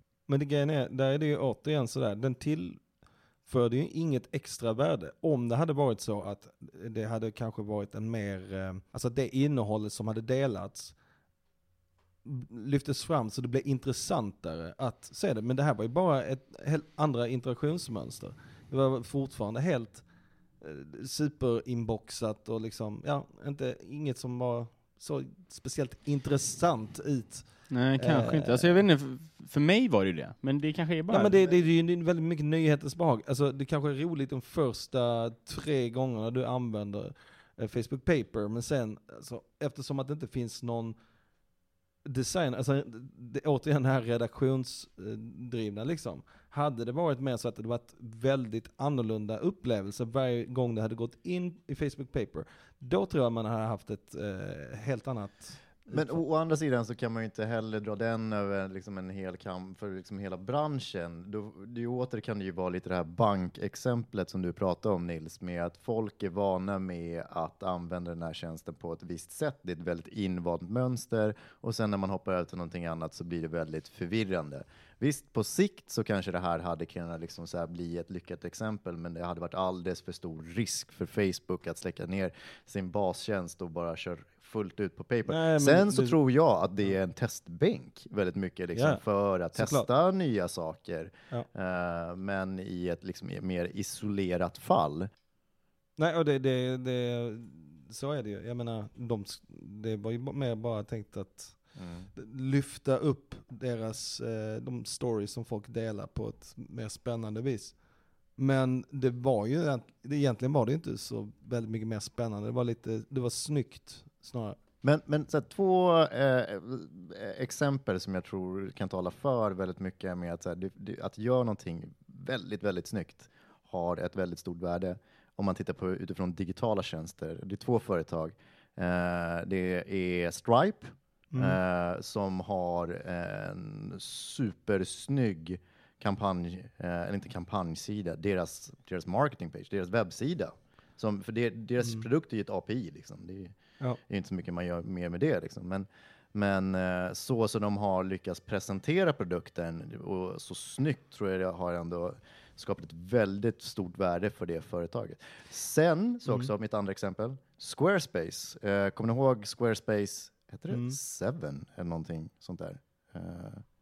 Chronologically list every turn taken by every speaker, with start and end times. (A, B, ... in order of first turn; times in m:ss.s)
0:00.3-0:11.0 A
0:12.2-0:20.1 A
0:20.6-0:28.8 A
0:27.7-0:31.4 B
0:31.1-0:41.0 A
0:42.0-0:56.2 A
0:55.9-1:35.1 C
1:25.3-1:26.2 A
1:28.8-1:29.0 A
1:29.5-1:29.9 A
1:36.0-1:47.8 A
1:41.8-1:42.1 C
1:48.4-1:54.6 A
1:54.8-2:43.6 C
2:11.3-2:11.6 A
2:40.7-2:41.0 A